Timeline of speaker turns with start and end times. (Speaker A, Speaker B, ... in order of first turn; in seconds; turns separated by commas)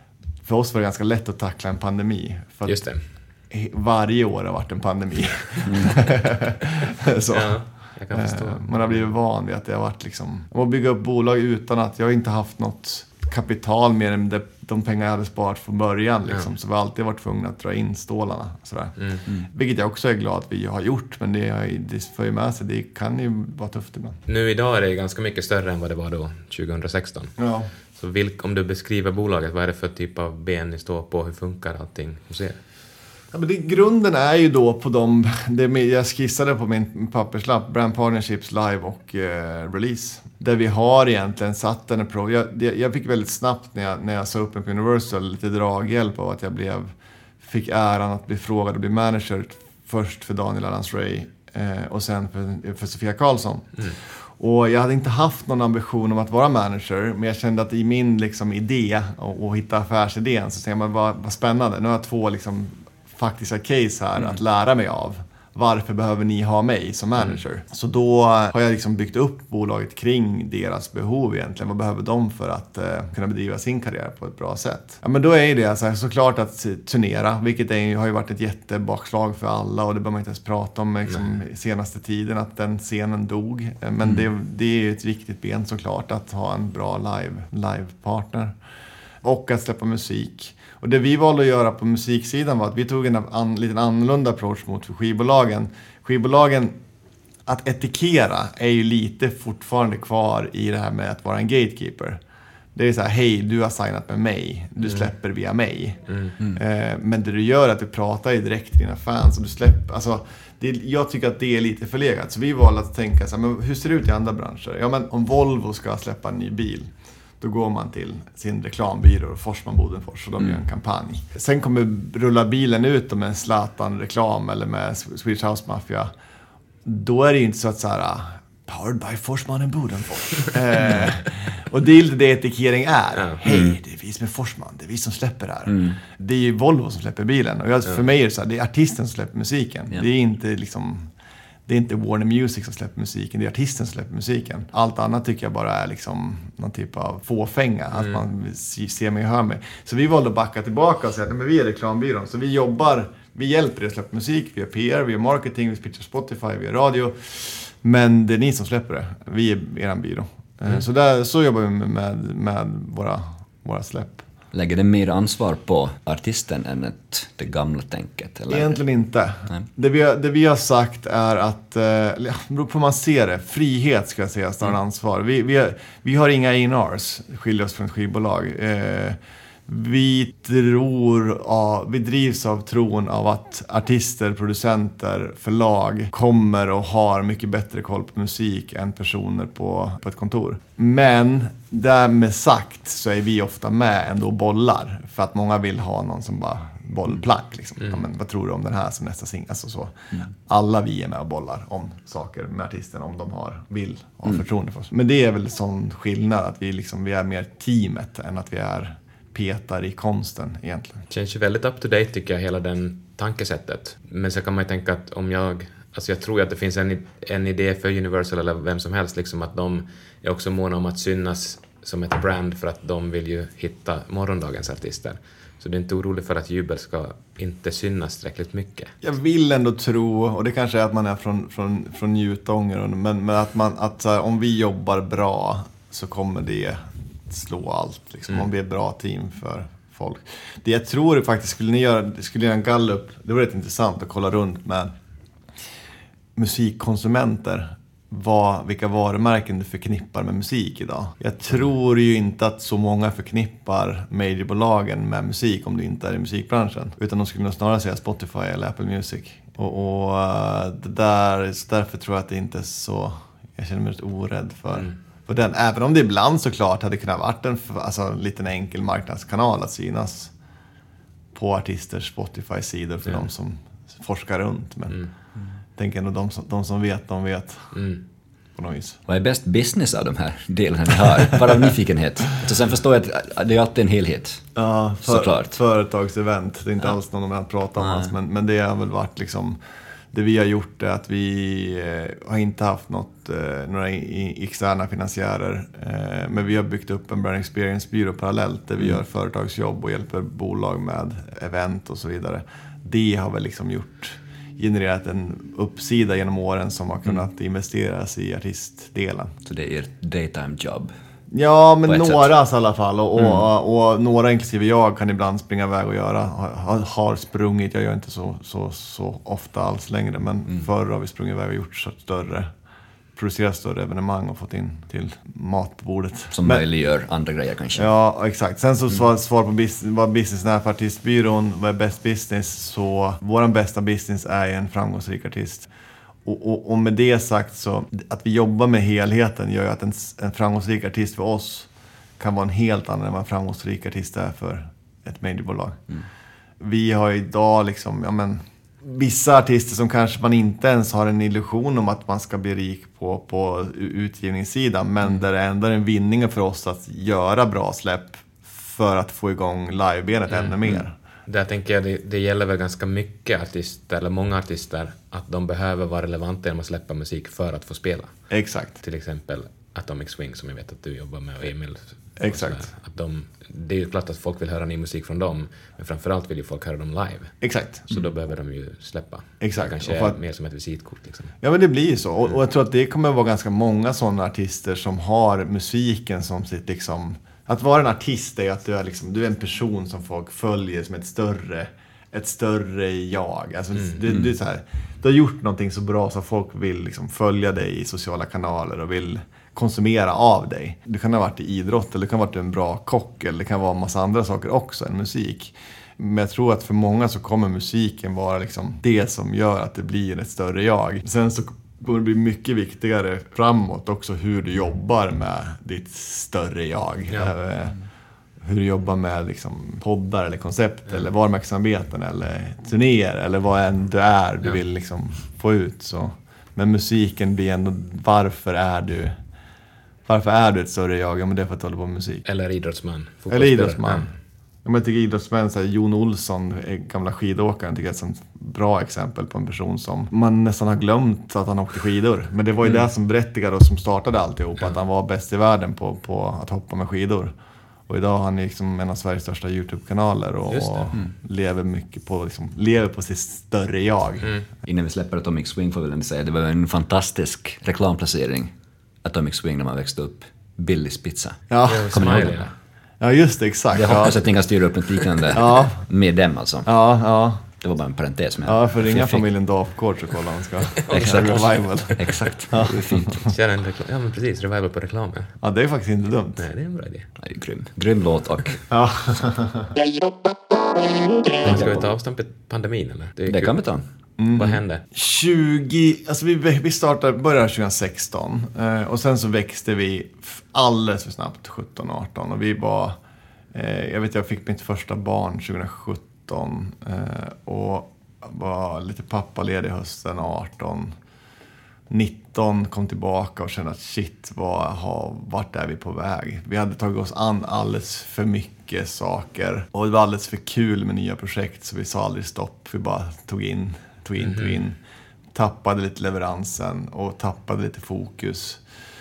Speaker A: 0.4-2.8, Speaker B: 2.6-3.0, Speaker A: 3.5-24.2, Speaker B: 7.3-9.1, Speaker B: 24.3-27.4, Speaker A: 27.4-27.7, Speaker B: 27.9-32.6, Speaker A: 33.3-88.5, Speaker A: 89.2-96.7, Speaker A: 97.5-102.2, Speaker A: 102.7-116.9, Speaker A: 117.4-126.1, Speaker A: 126.8-141.1, Speaker C: 133.4-133.8, Speaker A: 141.7-164.2, Speaker C: 164.5-168.8, Speaker A: 168.5-211.1, Speaker B: 211.1-228.9, Speaker A: 229.0-244.9, Speaker A: 246.3-270.3, Speaker A: 271.3-275.0, Speaker A: 275.8-277.8, Speaker B: 277.7-278.0, Speaker A: 278.6-279.0, Speaker C: 279.1-284.4, Speaker A: 284.5-289.6, Speaker C: 285.0-285.6, Speaker C: 287.8-288.1, Speaker A: 290.1-309.3, Speaker C: 309.4-310.9, Speaker A: 311.3-322.5, Speaker C: 311.9-312.3, Speaker A: 323.1-326.6, Speaker C: 326.3-327.9, Speaker A: 327.7-335.7, Speaker A: 336.2-341.7, Speaker A: 342.2-345.8, Speaker A: 346.6-360.9, Speaker B: 361.3-368.2, Speaker A: 368.3-368.8, Speaker B: 368.8-381.3, Speaker A: 372.2-372.7, Speaker A: 377.4-377.9, Speaker A: 379.4-380.2, Speaker A: 381.4-417.8, Speaker A: 418.4-429.1, Speaker A: 430.1-432.2, Speaker B: 432.2-434.1, Speaker A: 433.3-434.1, Speaker A: 434.6-447.3, Speaker A: 447.9-454.3, Speaker B: 450.5-450.9, Speaker C: 454.6-458.5, Speaker C: 459.0-462.5, Speaker A: 461.5-462.3, Speaker B: 461.7-462.5, Speaker A: 463.0-464.2, Speaker C: 463.7-466.7, Speaker A: 465.3-465.8, Speaker A: 466.6-467.4, Speaker C: 467.6-469.2, Speaker A: 468.4-473.2, Speaker C: 470.9-473.2, Speaker B: 473.2-475.3, Speaker A: 475.4-476.4, Speaker B: 476.4-477.1, Speaker C: 477.2-478.6, Speaker A: 478.7-479.7, Speaker B: 481.4-483.6, Speaker C: 483.3-483.8, Speaker A: 484.2-493.0, Speaker B: 484.4-484.8, Speaker A: 493.5-500.9, Speaker A: 501.9-514.8, Speaker B: 514.2-514.6, Speaker A: 515.3-518.6